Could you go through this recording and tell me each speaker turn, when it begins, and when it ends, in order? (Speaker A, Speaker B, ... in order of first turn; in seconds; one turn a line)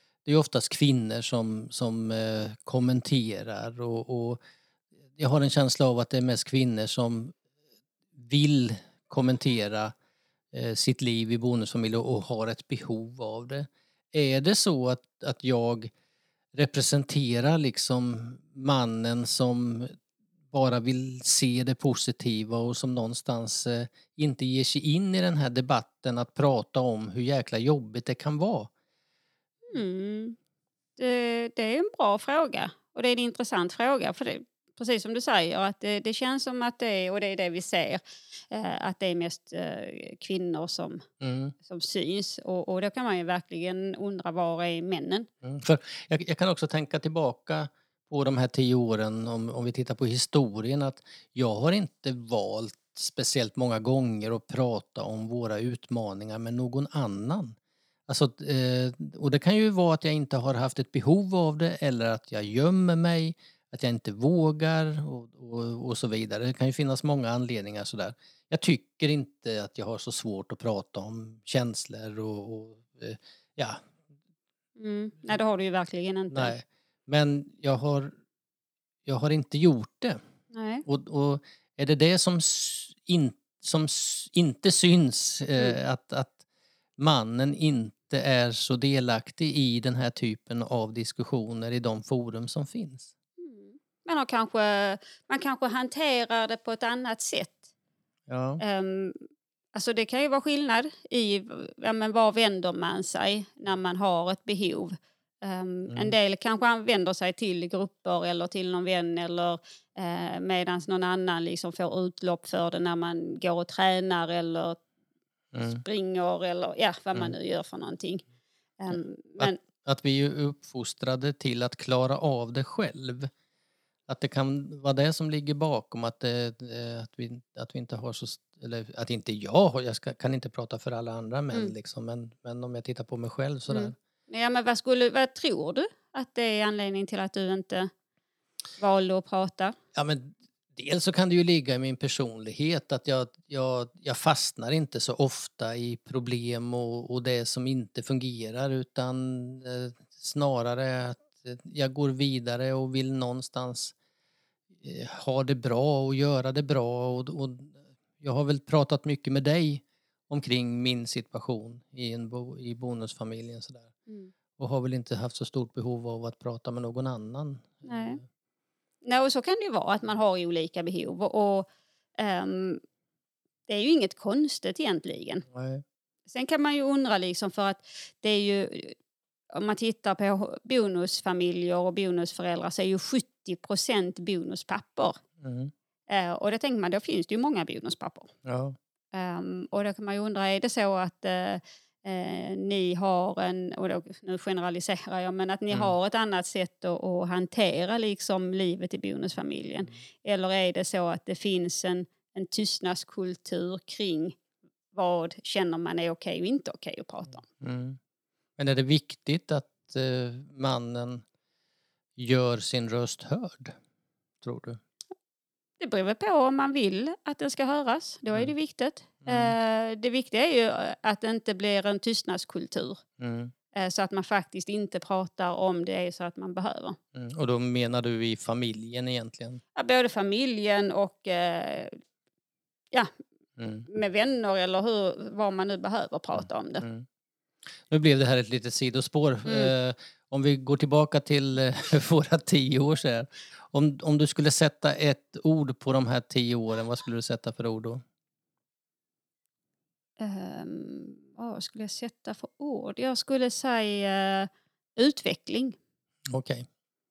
Speaker A: 0.2-4.4
Speaker A: 5.2-7.3
Speaker A: 8.2-9.9
Speaker A: 10.5-15.9
Speaker A: 16.6-19.9
Speaker A: 20.5-28.7
Speaker B: 29.7-30.4
Speaker B: 31.0-41.1
Speaker A: 41.2-41.5
Speaker B: 41.6-45.3
Speaker A: 45.4-57.6
Speaker A: 58.1-73.8
Speaker B: 74.8-76.6
Speaker A: 76.3-78.1
Speaker A: 79.1-80.2
Speaker B: 80.5-80.8
Speaker A: 80.9-86.4
Speaker A: 87.0-93.1
Speaker B: 93.4-97.7
Speaker A: 98.3-98.6
Speaker B: 98.6-99.2
Speaker B: 99.7-114.8
Speaker A: 105.9-106.1
Speaker A: 115.5-115.8
Speaker B: 115.6-118.2
Speaker B: 118.8-119.6
Speaker A: 118.9-123.3
Speaker A: 124.1-133.9
Speaker B: 133.7-137.9
Speaker B: 138.8-139.8
Speaker A: 139.9-153.9
Speaker A: 154.8-163.9
Speaker B: 164.1-164.3
Speaker A: 164.6-168.2
Speaker B: 167.8-168.2
Speaker B: 169.0-172.8
Speaker B: 173.7-175.5
Speaker A: 175.5-175.8
Speaker B: 176.3-178.9
Speaker B: 179.5-185.2
Speaker A: 185.4-185.7
Speaker B: 186.1-188.3
Speaker A: 188.5-188.8
Speaker B: 189.1-204.4
Speaker B: 204.9-207.4
Speaker A: 207.6-208.0
Speaker A: 208.6-211.2
Speaker A: 212.2-213.7
Speaker A: 214.4-214.8
Speaker B: 215.8-223.0
Speaker A: 219.2-219.6
Speaker A: 223.2-223.5
Speaker B: 223.7-227.0
Speaker A: 227.2-229.6
Speaker B: 229.8-231.9
Speaker A: 233.6-233.9
Speaker B: 233.9-236.9
Speaker A: 236.3-237.1
Speaker A: 237.9-248.0
Speaker B: 239.5-239.7
Speaker B: 250.2-255.8
Speaker A: 256.3-256.7